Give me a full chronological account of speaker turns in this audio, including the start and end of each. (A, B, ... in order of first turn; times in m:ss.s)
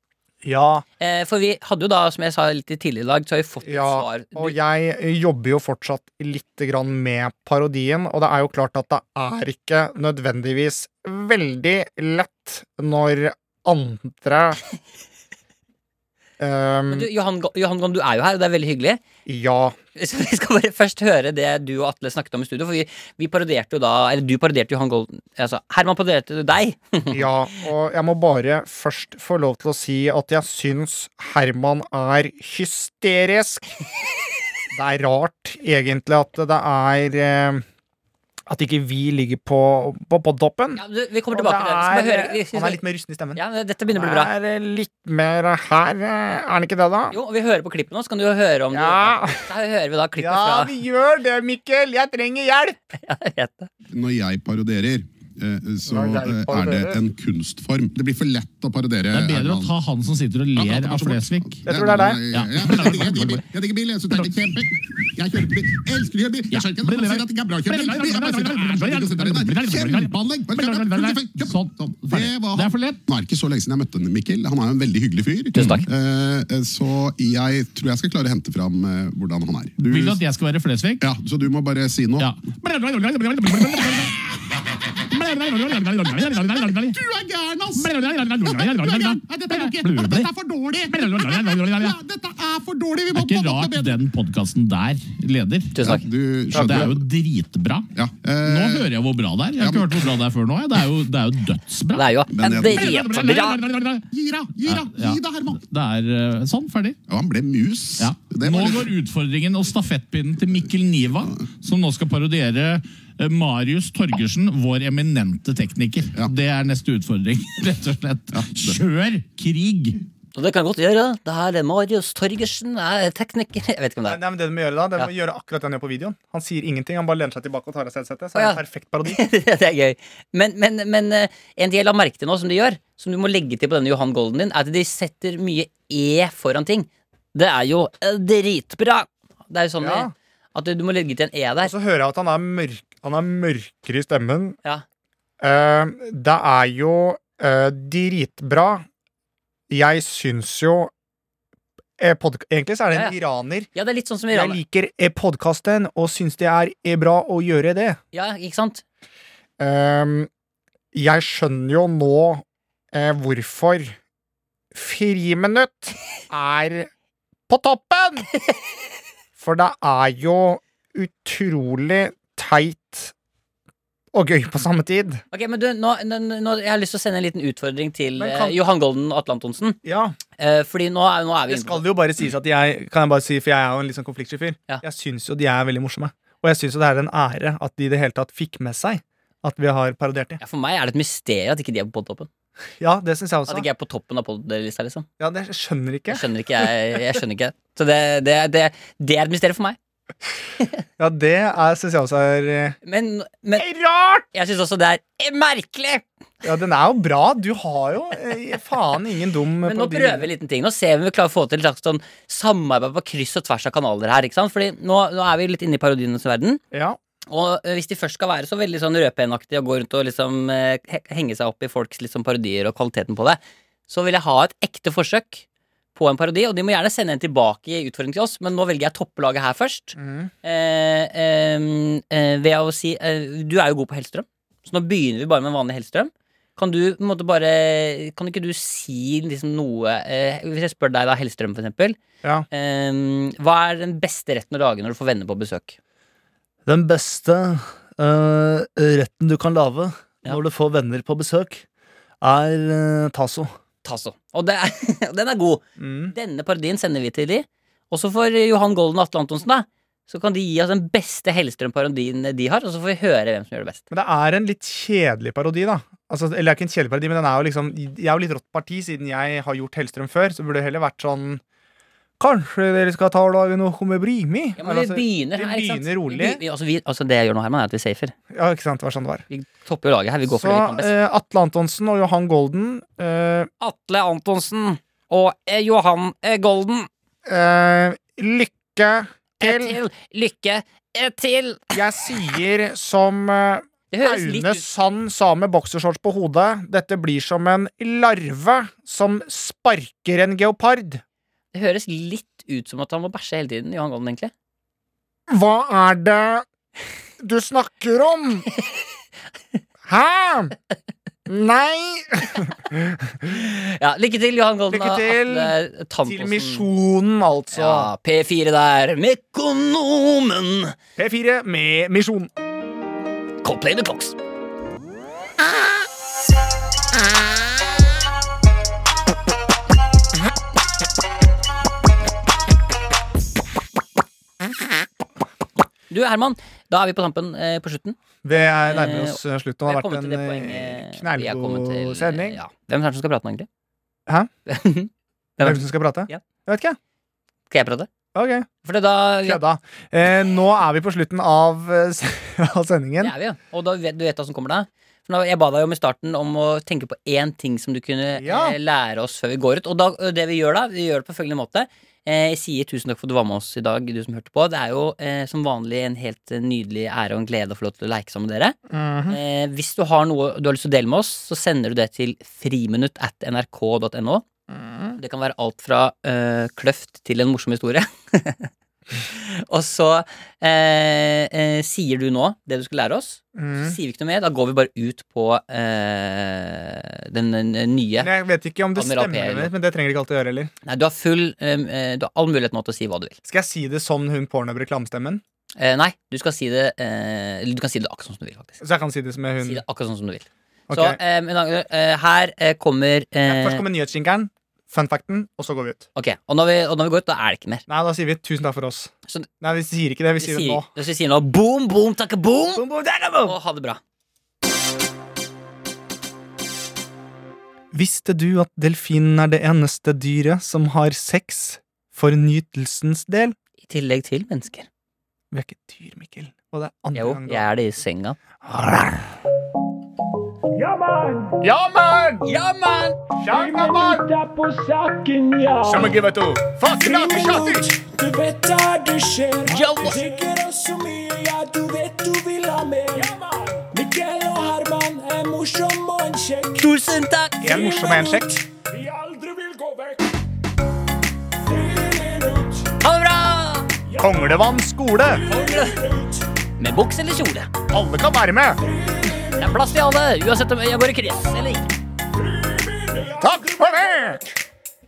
0:00.4-0:00.8 A
0:01.0-0:04.6 B
0:03.6-0:14.6 A
0:16.4-0:17.1 A
0:16.9-0:19.0 B
0:19.3-0:19.8 A
0:20.0-0:27.3 B
0:27.1-0:33.8 A
0:34.7-0:37.6 A
0:38.5-0:40.8 A
0:40.8-0:42.8 B
0:41.3-0:43.4 A
0:43.4-0:44.3 B
0:43.9-0:47.2 A
0:47.1-0:50.7 B
0:48.7-0:49.5 A
0:50.2-0:52.8 A
0:53.0-0:53.7 B
0:53.9-0:59.7 C
0:55.9-0:57.0 A
0:59.1-1:01.7 D
1:00.6-1:20.2 C
1:01.7-1:02.2 A
1:02.3-1:03.4 D
1:06.5-1:13.0 D
1:15.5-1:15.9 B
1:15.6-1:15.8 D
1:19.8-1:21.0 D
1:21.0-1:22.3 C
1:22.2-1:24.2 D
1:23.5-1:24.2 C
1:25.0-1:27.0 D
1:26.1-1:34.0 C
1:27.8-1:30.3 D
1:30.9-1:32.0 D
1:33.1-1:44.1 D
1:35.8-1:36.0 B
1:35.8-1:37.1 C
1:38.0-1:38.9 C
1:39.6-1:40.2 C
1:41.9-1:43.6 B
1:42.3-1:43.4 C
1:44.1-1:45.6 C
1:44.7-1:47.0 D
1:47.1-1:48.9 C
1:48.0-2:00.0 D
1:50.5-1:51.5 C
1:58.3-1:58.8 C
2:00.4-2:04.2 B
2:04.1-2:09.2 A
2:08.4-2:21.7 B
2:19.8-2:20.1 A
2:21.6-2:24.6 A
2:25.4-2:28.9 A
2:29.7-2:30.9 A
2:32.0-2:33.7 A
2:33.7-2:34.6 B
2:34.3-2:38.0 A
2:38.1-2:38.8 B
2:39.6-2:40.3 A
2:40.9-2:44.0 A
2:44.7-2:46.9 A
2:47.5-2:48.3 A
2:49.4-2:53.1 A
2:54.1-2:55.2 A
2:55.3-2:59.8 B
2:58.2-2:58.6 A
2:59.8-3:00.2 A
3:00.4-3:01.8 B
3:01.5-3:10.4 A
3:10.4-3:12.3 B
3:12.8-3:13.7 A
3:13.5-3:15.1 B
3:15.2-3:16.2 A
3:16.1-3:19.8 B
3:21.0-3:22.8 A
3:22.8-3:23.7 B
3:23.6-3:24.3 A
3:24.3-3:26.0 B
3:26.4-3:30.3 A
3:29.6-3:36.6 B
3:36.7-3:37.0 A
3:37.3-4:02.0 B
3:50.0-3:50.3 A
4:02.5-4:05.8 B
4:06.7-4:11.6 A
4:12.2-4:13.5 A
4:13.8-4:23.8 B
4:15.8-4:16.2 A
4:23.9-4:31.4 A
4:32.2-4:36.4 A
4:34.6-4:38.1 B
4:38.3-4:39.2 A
4:39.3-4:40.9 B
4:40.3-4:43.5 A
4:43.6-4:46.9 B
4:47.2-4:49.8 A
4:49.4-4:51.8 B
4:51.7-5:01.0 A
4:53.9-4:54.6 B
5:01.5-5:04.3 B
5:05.3-5:06.4 A
5:07.2-5:08.5 A
5:09.9-5:10.5 A
5:11.3-5:13.2 A
5:13.3-5:16.7 B
5:14.7-5:17.9 A
5:17.5-5:20.8 B
5:21.0-5:22.3 A
5:23.4-5:24.2 B
5:35.9-5:38.0 B
5:38.2-5:42.4 A
5:38.6-5:43.5 B
5:44.5-5:46.2 B
5:45.4-5:46.8 A
5:47.5-5:47.9 B
5:48.2-5:48.5 A
5:48.6-5:49.4 B
5:49.2-5:53.1 A
5:53.0-6:08.6 B
5:58.2-5:58.6 A
6:08.7-6:09.2 A
6:09.1-6:14.2 B
6:14.5-6:15.0 A
6:15.0-6:28.1 B
6:23.4-6:23.8 A
6:28.0-6:30.5 A
6:28.8-6:29.5 B
6:30.6-6:33.2 B
6:33.3-6:35.2 A
6:35.6-6:38.6 B
6:38.6-6:39.6 A
6:39.4-6:43.6 B
6:40.7-6:41.0 A
6:43.3-6:45.9 A
6:46.0-6:47.6 B
6:47.7-6:50.7 A
6:50.2-6:52.6 B
6:52.6-6:53.4 A
6:53.3-6:53.8 B
6:57.7-7:03.4 A
7:03.6-7:04.7 B
7:05.3-7:07.4 A
7:07.0-7:08.2 B
7:08.4-7:09.2 A
7:10.5-7:11.5 E
7:11.4-7:12.3 A
7:12.2-7:13.0 B
7:13.2-7:14.0 A
7:13.3-7:16.0 E
7:15.6-7:17.7 A
7:16.7-7:26.7 E
7:19.5-7:20.0 B
7:26.6-7:27.6 B
7:27.4-7:28.4 A
7:27.4-7:30.1 E
7:31.4-7:32.7 E
7:32.8-7:33.7 B
7:33.9-7:34.4 E
7:34.0-7:35.3 A
7:35.0-7:36.2 E
7:35.3-7:35.8 B
7:36.6-7:37.5 B
7:37.7-7:38.6 A
7:38.5-7:39.6 E
7:39.4-7:41.7 B
7:42.2-7:44.2 E
7:43.2-7:44.2 A